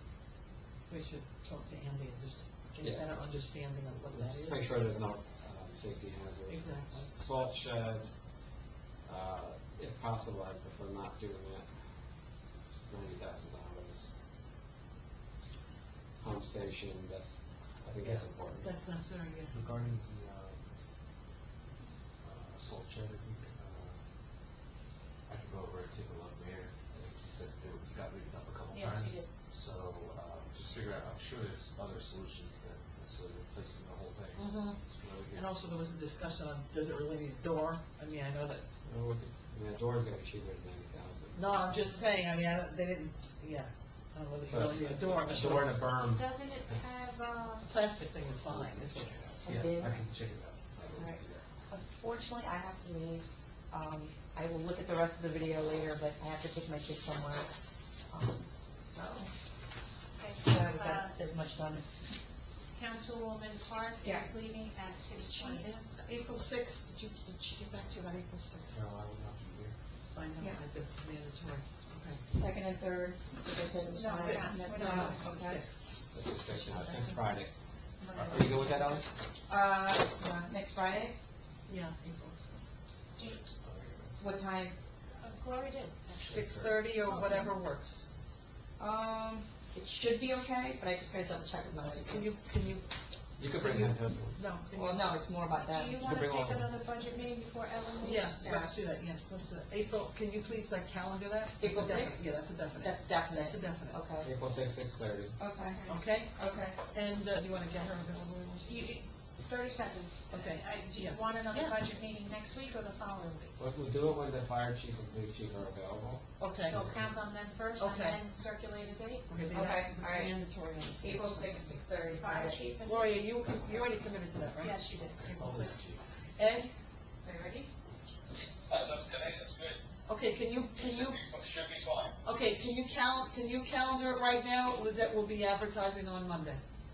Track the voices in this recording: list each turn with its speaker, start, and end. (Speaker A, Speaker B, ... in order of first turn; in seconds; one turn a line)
Speaker A: 0.9-4.8
Speaker B: 2.8-14.1
Speaker A: 6.5-7.1
Speaker B: 16.2-18.7
Speaker A: 18.6-19.6
Speaker C: 19.5-20.7
Speaker C: 22.2-24.1
Speaker C: 25.2-35.6
Speaker D: 28.7-29.3
Speaker A: 34.4-34.8
Speaker A: 35.3-38.7
Speaker B: 38.8-41.8
Speaker A: 41.3-45.8
Speaker B: 44.4-46.8
Speaker D: 45.9-47.7
Speaker A: 47.6-49.4
Speaker C: 49.4-51.4
Speaker E: 49.4-50.0
Speaker B: 50.8-51.3
Speaker E: 51.0-57.5
Speaker E: 58.1-59.3
Speaker D: 60.2-61.2
Speaker E: 60.4-61.8
Speaker D: 62.7-65.7
Speaker E: 64.0-64.3
Speaker A: 65.2-68.8
Speaker C: 68.7-69.8
Speaker A: 70.1-72.2
Speaker E: 72.3-75.6
Speaker D: 73.9-75.3
Speaker A: 74.0-76.0
Speaker B: 76.1-77.5
Speaker A: 76.5-77.2
Speaker D: 78.0-78.4
Speaker B: 78.1-79.1
Speaker E: 79.5-81.2
Speaker A: 81.7-82.7
Speaker D: 83.2-83.4
Speaker C: 83.2-84.2
Speaker E: 84.2-84.7
Speaker D: 85.2-86.5
Speaker C: 86.1-86.7
Speaker A: 86.2-88.1
Speaker D: 87.0-87.5
Speaker E: 88.8-92.3
Speaker A: 91.8-92.9
Speaker B: 93.4-94.4
Speaker A: 93.5-95.2
Speaker E: 94.7-96.1
Speaker D: 95.5-98.7
Speaker B: 96.0-96.7
Speaker A: 98.0-104.0
Speaker E: 98.4-98.7
Speaker E: 101.6-104.3
Speaker B: 104.2-105.4
Speaker E: 105.4-106.8
Speaker A: 105.8-109.0
Speaker D: 108.6-113.5
Speaker A: 110.3-111.8
Speaker B: 113.6-117.0
Speaker A: 116.4-116.8
Speaker D: 116.7-119.3
Speaker A: 117.8-118.2
Speaker A: 119.3-121.7
Speaker E: 119.5-120.4
Speaker E: 121.0-122.6
Speaker D: 122.1-123.2
Speaker A: 122.8-124.9
Speaker D: 124.6-125.8
Speaker C: 125.1-126.1
Speaker A: 126.4-126.7
Speaker E: 127.2-127.7
Speaker F: 128.7-129.8
Speaker A: 130.1-131.3
Speaker F: 131.0-132.2
Speaker A: 132.2-136.6